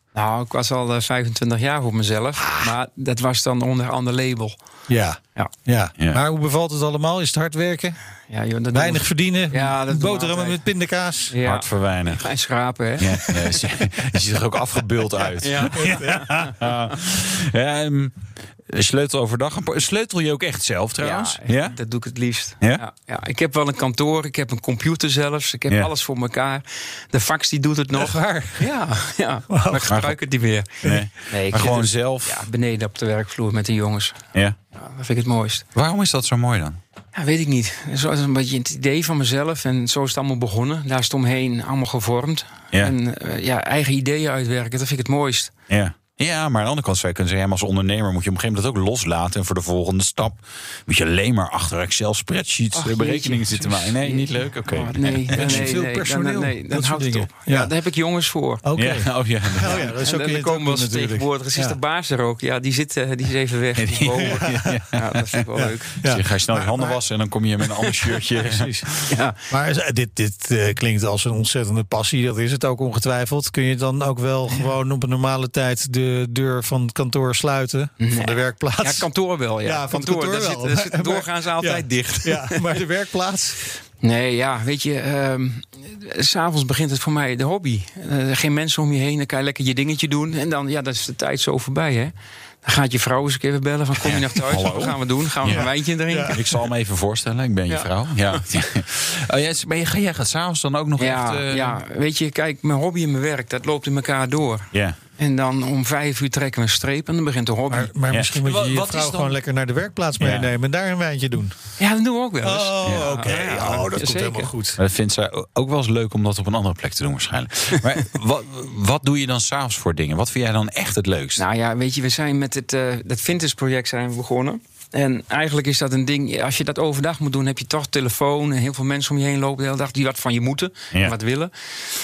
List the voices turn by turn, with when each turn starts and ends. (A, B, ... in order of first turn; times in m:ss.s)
0:00.1-0:04.6 A
0:02.4-0:02.7 B
0:04.9-0:08.0 B
0:08.3-0:10.7 A
0:08.7-0:11.3 B
0:11.3-0:13.2 A
0:11.4-0:12.3 C
0:13.0-0:21.8 C
0:15.4-0:16.5 A
0:15.8-0:16.2 B
0:21.0-0:35.7 A
0:29.5-0:29.8 B
0:29.9-0:30.2 C
0:30.8-0:32.5 C
0:35.7-0:36.8 C
0:37.2-0:45.5 A
0:45.7-0:55.7 C
0:52.7-0:58.7 A
0:55.3-0:57.7 B
0:58.6-1:01.8 B
0:58.8-0:59.9 C
0:59.6-1:06.0 A
1:03.8-1:05.4 C
1:04.4-1:04.8 B
1:05.6-1:07.0 B
1:06.0-1:09.1 C
1:08.4-1:08.9 B
1:09.1-1:09.4 A
1:09.5-1:19.1 B
1:18.0-1:22.8 A
1:19.6-1:23.6 B
1:24.0-1:36.4 A
1:34.0-1:35.7 C
1:36.1-1:36.4 B
1:36.3-1:41.8 C
1:37.7-1:38.4 A
1:41.0-1:48.0 A
1:44.7-1:45.0 C
1:47.7-1:51.6 B
1:48.1-1:49.4 C
1:50.2-1:50.5 C
1:51.8-1:54.5 A
1:52.4-1:54.8 B
1:52.8-1:53.2 C
1:54.8-2:01.4 C
2:01.4-2:11.5 A